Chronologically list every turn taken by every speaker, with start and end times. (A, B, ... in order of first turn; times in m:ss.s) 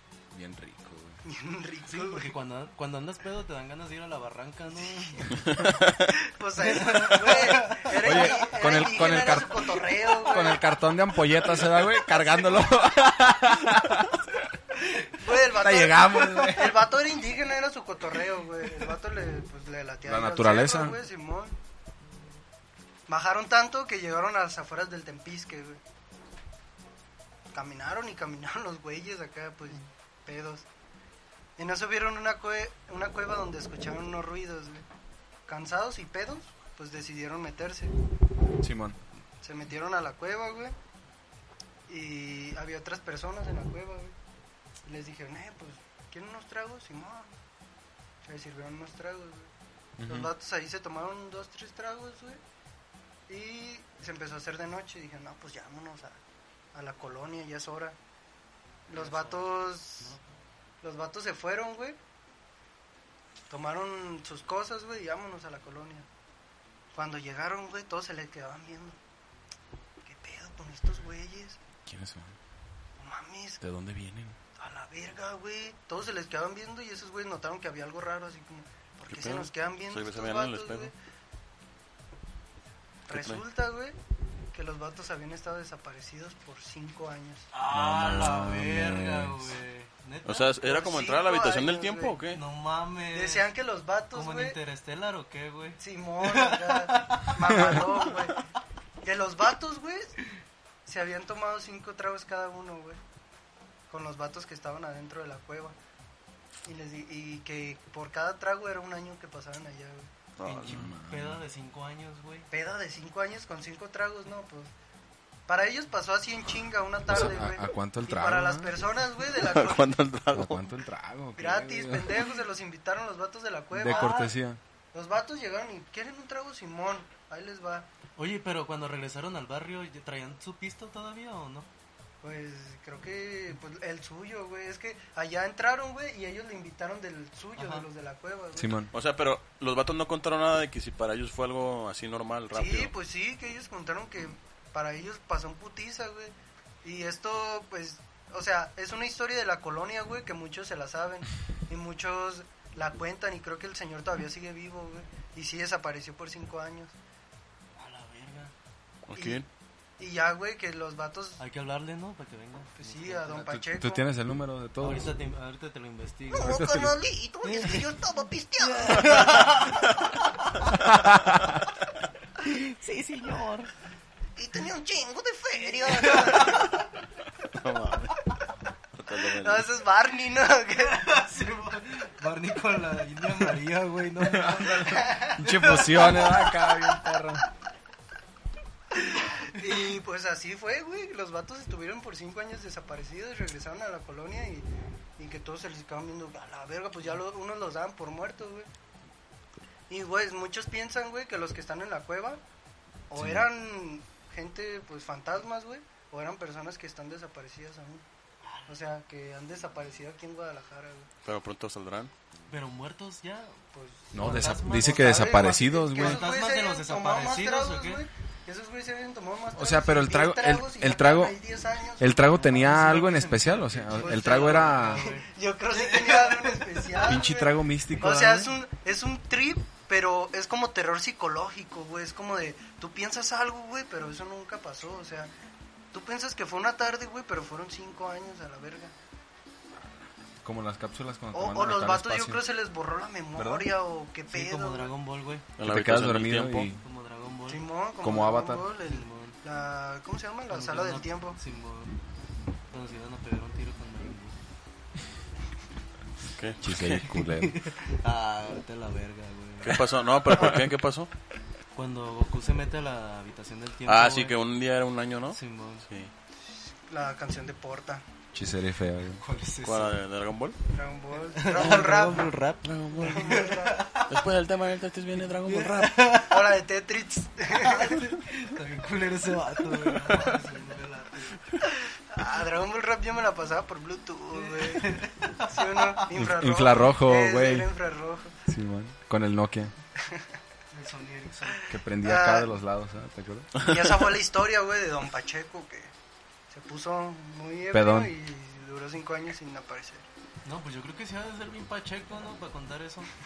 0:00.3-0:01.2 A
0:01.2-0:02.3 B
0:01.8-0:05.4 C
0:05.0-0:10.6 B
0:05.5-0:05.9 D
0:06.6-0:08.2 C
0:08.0-0:14.5 A
0:15.1-0:21.6 B
0:15.3-0:16.9 A
0:20.0-0:21.0 A
0:23.1-0:25.8 B
0:27.5-0:30.6 B
0:31.6-0:34.8 B
0:35.5-0:37.9 B
0:38.6-0:39.0 A
0:39.4-0:40.7 B
0:41.9-0:44.1 B
0:44.8-0:47.3 B
0:48.2-0:49.5 B
0:50.0-0:50.3 A
0:50.0-0:52.4 B
0:53.3-0:56.2 B
0:56.7-0:58.0 B
0:58.9-1:00.2 B
0:59.0-1:00.3 C
1:00.8-1:02.0 B
1:03.5-1:06.1 B
1:06.9-1:09.0 B
1:10.0-1:11.6 B
1:11.8-1:12.4 A
1:13.0-1:13.6 B
1:13.6-1:14.3 A
1:14.6-1:20.9 B
1:19.1-1:20.9 D
1:23.1-1:24.0 B
1:23.1-1:23.4 D
1:24.5-1:27.5 B
1:27.5-1:30.5 C
1:27.7-1:29.5 A
1:30.2-1:32.4 D
1:30.6-1:32.2 B
1:32.3-1:33.5 C
1:33.1-1:34.6 B
1:34.1-1:38.3 C
1:35.8-1:38.4 B
1:39.0-1:40.2 B
1:40.8-1:43.0 B
1:43.9-1:45.8 B
1:46.6-1:50.1 B
1:50.4-1:50.9 D
1:50.4-1:52.5 C
1:50.6-1:51.4 A
1:52.5-1:54.7 B
1:55.5-1:59.9 B
1:57.1-1:58.8 A
1:59.3-2:00.7 D
2:00.3-2:02.3 A
2:01.4-2:04.3 B
2:03.7-2:04.6 A
2:03.8-2:04.3 C
2:04.9-2:07.9 B
2:08.2-2:11.7 C
2:12.2-2:18.8 B
2:17.6-2:17.8 C
2:18.6-2:18.9 A
2:18.9-2:22.9 D
2:22.5-2:36.9 B
2:37.8-2:38.5 C
2:39.0-2:39.4 D
2:39.1-2:39.4 B
2:40.0-2:41.4 B
2:41.4-2:43.4 C
2:42.8-2:44.0 B
2:43.4-2:45.1 A
2:44.8-2:46.6 C
2:46.3-2:49.9 B
2:46.4-2:47.0 A
2:47.4-2:48.0 C
2:48.6-2:49.8 C
2:50.4-2:50.8 C
2:50.9-2:51.4 A
2:52.4-2:53.7 C
2:54.4-2:56.8 B
2:55.9-2:56.7 C
2:57.5-2:58.2 D
2:58.9-2:59.7 D
2:59.2-3:01.3 B
3:00.9-3:06.7 C
3:04.2-3:07.5 A
3:09.1-3:18.7 B
3:19.9-3:22.4 B
3:23.1-3:28.0 B
3:23.2-3:23.5 A
3:28.4-3:28.7 C
3:28.7-3:31.1 B
3:31.2-3:32.1 D
3:32.5-3:33.6 C
3:33.7-3:42.6 B
3:34.1-3:35.2 C
3:34.1-3:36.3 A
3:35.9-3:38.0 C
3:39.5-3:41.4 A
3:42.0-3:45.1 A
3:42.3-3:47.1 C
3:44.0-3:55.3 B
3:47.0-3:48.6 A
3:55.9-3:58.9 B
4:00.4-4:02.4 A
4:01.3-4:04.9 B
4:03.4-4:03.7 A
4:04.3-4:05.4 C
4:05.6-4:06.7 D
4:05.6-4:06.8 A
4:06.8-4:07.6 C
4:07.5-4:11.4 B
4:08.0-4:08.6 A
4:08.8-4:09.4 C
4:10.5-4:11.9 C
4:12.7-4:14.3 C
4:16.3-4:17.1 D
4:16.6-4:17.6 A
4:17.1-4:19.8 C
4:19.6-4:21.1 D
4:21.7-4:24.4 C
4:23.9-4:26.1 D
4:25.3-4:25.8 C
4:26.4-4:28.0 B
4:28.3-4:29.2 A
4:29.2-4:30.0 C
4:29.6-4:30.6 D
4:30.7-4:32.3 B
4:31.3-4:34.1 C
4:32.6-4:33.4 D
4:33.0-4:33.9 B
4:34.0-4:36.0 D
4:35.4-4:36.5 C
4:36.2-4:38.0 B
4:37.5-4:41.4 C
4:41.6-4:48.4 B
4:44.3-4:46.1 C
4:46.1-4:47.7 A
4:48.5-4:49.7 A
4:50.0-4:50.3 B
4:50.7-4:51.7 C
4:51.7-4:53.5 A
4:52.0-4:52.5 B
4:53.6-4:55.9 B
4:56.5-5:00.0 B
4:57.7-4:58.1 A
5:00.4-5:03.1 C